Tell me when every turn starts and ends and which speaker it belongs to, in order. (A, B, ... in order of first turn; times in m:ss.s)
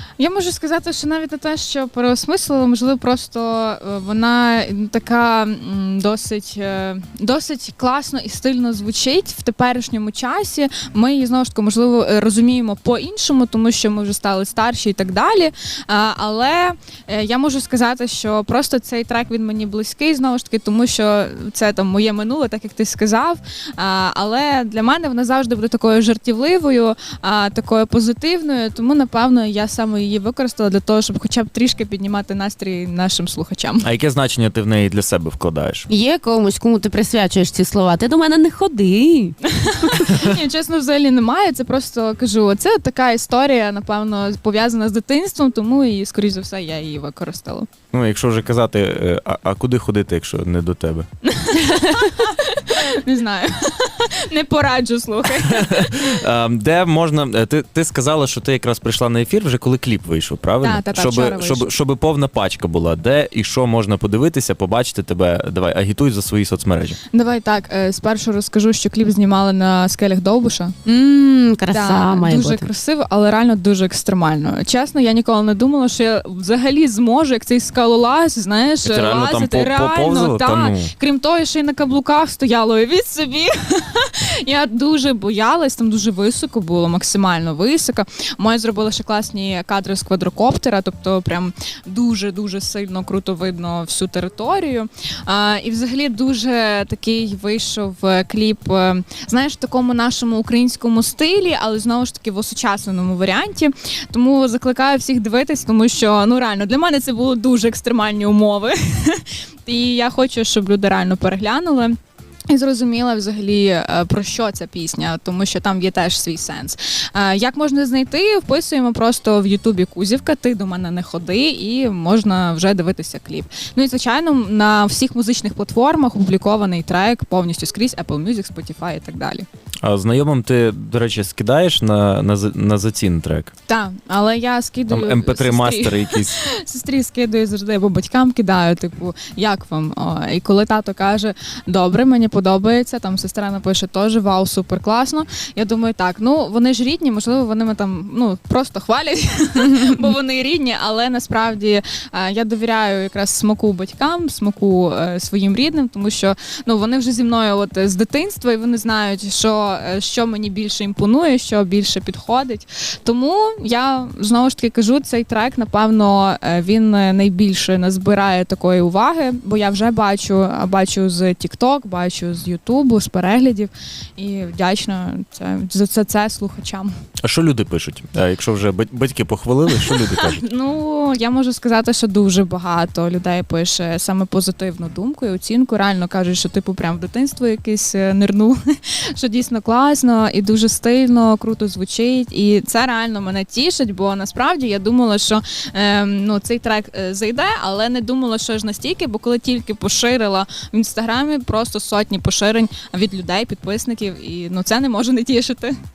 0:00.2-0:33.9 A
0:33.8-0:35.9 B
0:35.9-0:39.4 C
0:39.5-0:47.7 A
0:47.9-0:51.1 B
0:51.2-0:56.0 A
0:55.5-1:07.0 B
1:00.6-1:01.7 A
1:07.1-1:10.8 A
1:10.8-1:12.7 C
1:11.7-1:52.0 A
1:18.8-1:20.9 B
1:52.5-2:09.5 A
2:09.8-2:13.5 B
2:13.7-2:56.9 A
2:14.9-2:16.4 B
2:57.2-3:00.4 B
2:59.7-3:25.8 A